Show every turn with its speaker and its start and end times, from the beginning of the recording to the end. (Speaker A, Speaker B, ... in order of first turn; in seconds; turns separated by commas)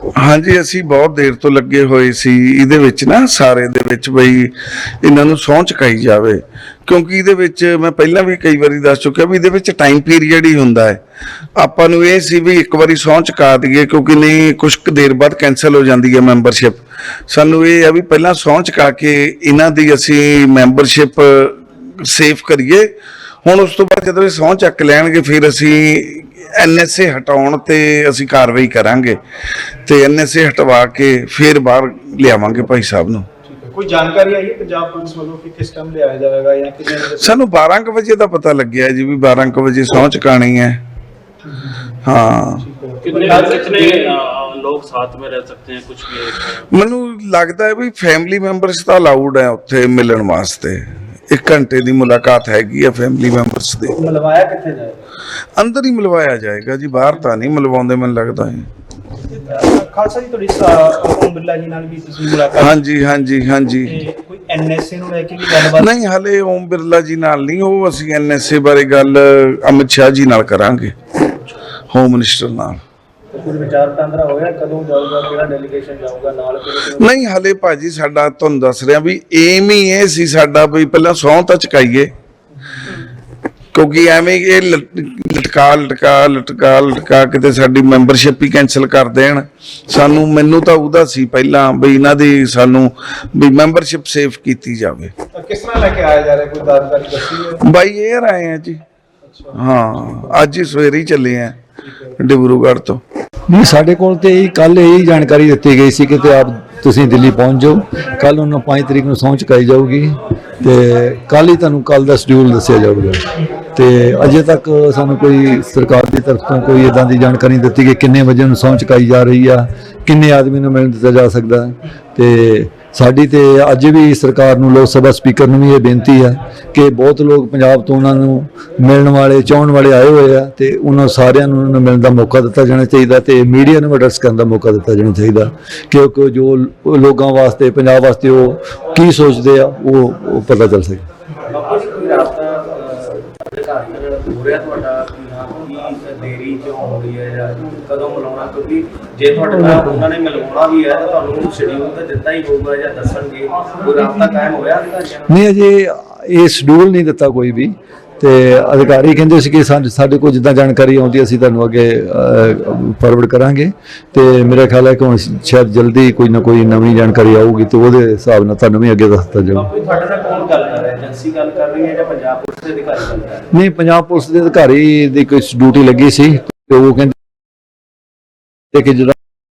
Speaker A: 0.1-11.0, Speaker A: 11.6-22.9, Speaker A: 23.4-29.2, Speaker A: 29.8-33.3, Speaker B: 33.5-37.3, Speaker A: 37.1-40.8, Speaker B: 41.5-41.8, Speaker A: 42.0-42.6, Speaker B: 42.7-43.7, Speaker C: 43.0-46.7, Speaker A: 46.7-54.0, Speaker D: 53.9-55.0, Speaker A: 55.6-58.7, Speaker B: 59.4-62.6, Speaker A: 62.5-64.0, Speaker B: 63.9-65.7, Speaker A: 65.4-70.9, Speaker A: 71.9-72.8, Speaker D: 73.3-77.1, Speaker A: 77.0-82.1, Speaker A: 83.7-95.1, Speaker B: 95.3-97.4, Speaker A: 97.5-98.8, Speaker A: 99.5-101.6, Speaker A: 102.2-103.0, Speaker E: 103.5-113.2, Speaker E: 113.8-141.0, Speaker D: 141.5-155.3, Speaker E: 149.6-150.0, Speaker E: 155.3-169.7, Speaker D: 169.5-173.5, Speaker E: 173.5-177.1, Speaker E: 178.7-179.2